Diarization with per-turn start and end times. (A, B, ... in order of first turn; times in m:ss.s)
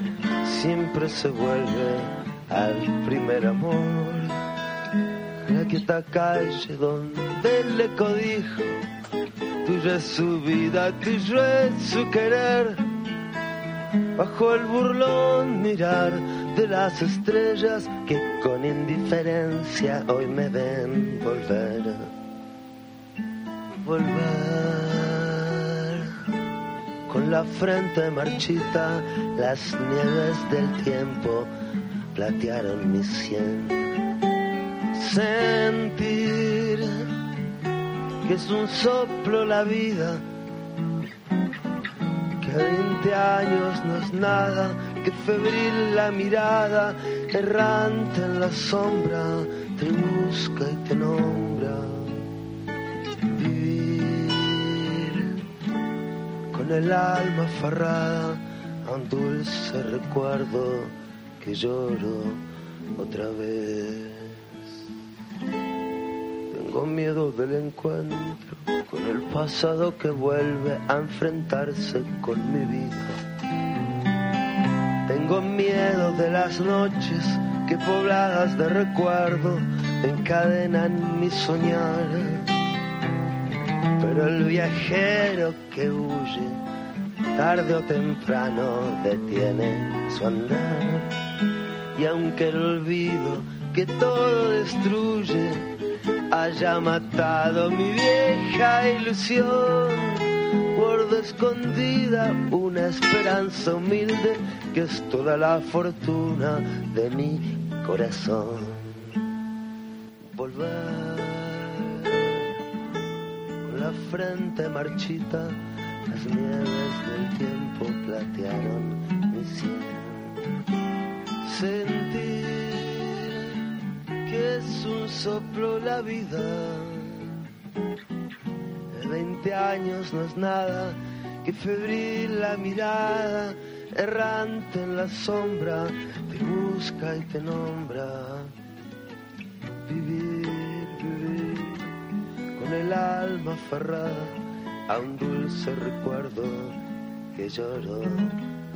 0:00.4-0:04.4 A
0:05.5-0:08.8 A
0:09.6-0:12.8 A
0:14.2-0:22.1 A
0:23.8-0:26.1 A
0:27.1-0:31.5 A
0:32.1-0:33.8 A
0:34.9-0:36.9 A
0:38.2-0:40.2 A
0:42.4-0:52.2 A
0:53.3-0:55.2 A
0:56.5-1:02.4 A
1:03.0-1:04.5 A
1:06.5-1:13.2 A
1:15.0-1:22.5 A
1:24.0-1:26.6 A
1:27.3-1:31.1 A
1:32.0-1:35.6 A
1:36.3-1:49.0 A
1:50.3-1:52.4 A
1:53.6-2:00.4 A
2:01.4-2:03.3 A
2:04.2-2:07.3 A
2:08.9-2:18.5 A
2:19.9-2:21.8 A
2:22.5-2:24.4 A
2:24.9-2:26.8 A
2:27.3-2:28.4 A